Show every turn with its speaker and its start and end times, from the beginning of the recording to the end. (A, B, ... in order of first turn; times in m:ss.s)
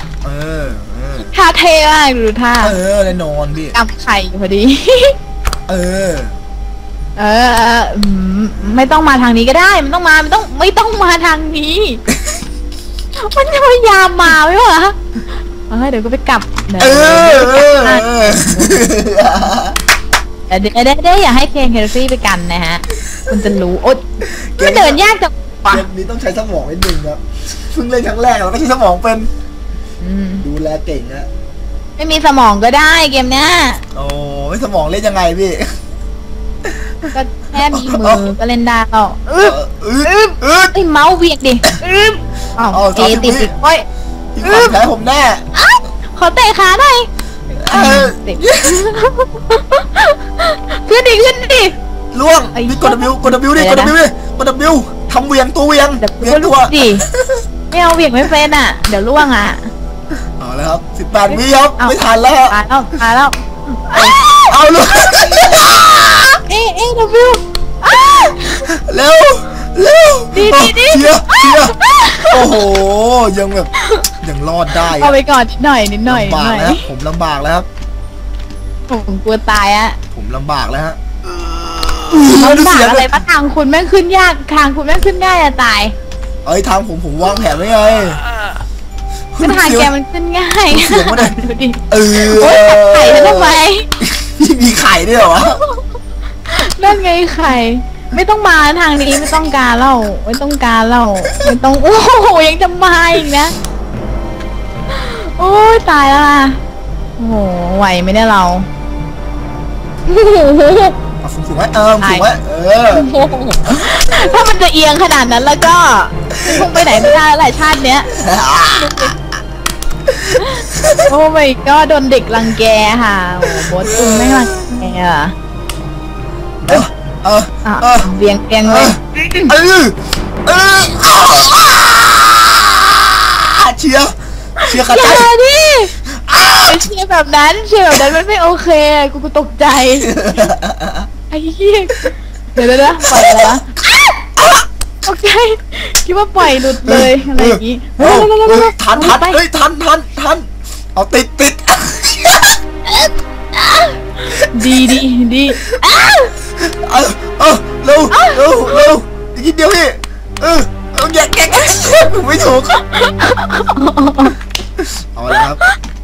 0:00.2-0:01.3 A
0:01.3-0:02.8 B
0:02.6-0:03.8 A
0:03.7-0:05.2 B
0:05.7-0:06.4 A
0:07.2-0:12.0 B
0:12.1-0:12.4 A
0:13.2-0:15.0 B
0:15.7-0:18.9 B
0:16.8-0:19.8 A
0:20.5-0:25.9 B
0:24.4-0:25.0 A
0:25.6-0:29.3 A
0:30.0-0:30.4 B
0:30.4-0:31.3 A
0:32.0-0:33.8 B
0:33.9-0:35.7 A
0:36.6-0:37.1 A
0:37.1-0:39.5 B
0:37.7-0:38.3 A
0:39.3-0:40.7 A
0:40.0-0:43.8 B
0:42.7-0:43.5 A
0:44.4-0:45.4 A
0:44.4-0:44.8 B
0:45.5-0:47.1 B
0:47.6-0:48.9 A
0:47.7-0:51.7 B
0:52.1-0:57.4 A
0:52.5-0:54.0 B
0:56.0-0:57.0 B
0:57.7-0:59.7 B
1:00.4-1:02.6 A
1:01.3-1:04.5 B
1:03.9-1:06.4 A
1:06.5-1:08.7 B
1:08.2-1:11.8 A
1:10.3-1:12.6 B
1:12.3-1:13.7 A
1:14.2-1:15.2 A
1:14.8-1:16.8 B
1:16.1-1:17.7 A
1:18.9-1:20.0 B
1:20.1-1:21.0 A
1:21.9-1:23.2 A
1:22.1-1:25.9 B
1:26.4-1:28.2 A
1:29.3-1:29.9 A
1:29.4-1:33.9 B
1:30.7-1:31.4 A
1:31.9-1:35.6 A
1:35.3-1:35.8 B
1:36.5-1:43.5 B
1:41.3-1:41.5 A
1:44.9-1:46.6 B
1:47.2-1:48.7 B
1:50.0-1:50.9 B
1:51.2-1:53.1 A
1:52.0-1:52.3 B
1:52.9-1:58.1 B
1:56.4-1:57.1 A
1:58.1-1:59.1 A
1:58.7-1:59.1 B
2:00.1-2:01.1 A
2:00.4-2:05.3 B
2:03.4-2:04.9 A
2:06.6-2:08.1 A
2:07.6-2:09.5 B
2:08.6-2:15.3 A
2:14.6-2:15.9 B
2:16.1-2:16.9 A
2:16.6-2:20.2 B
2:20.0-2:21.1 A
2:21.3-2:24.1 B
2:23.0-2:23.6 A
2:24.4-2:24.6 A
2:25.0-2:29.4 B
2:26.8-2:32.6 A
2:32.9-2:36.3 B
2:34.5-2:35.0 A
2:36.6-2:42.8 A
2:38.1-2:38.9 B
2:42.9-2:44.3 B
2:44.8-2:45.7 A
2:45.4-2:45.7 B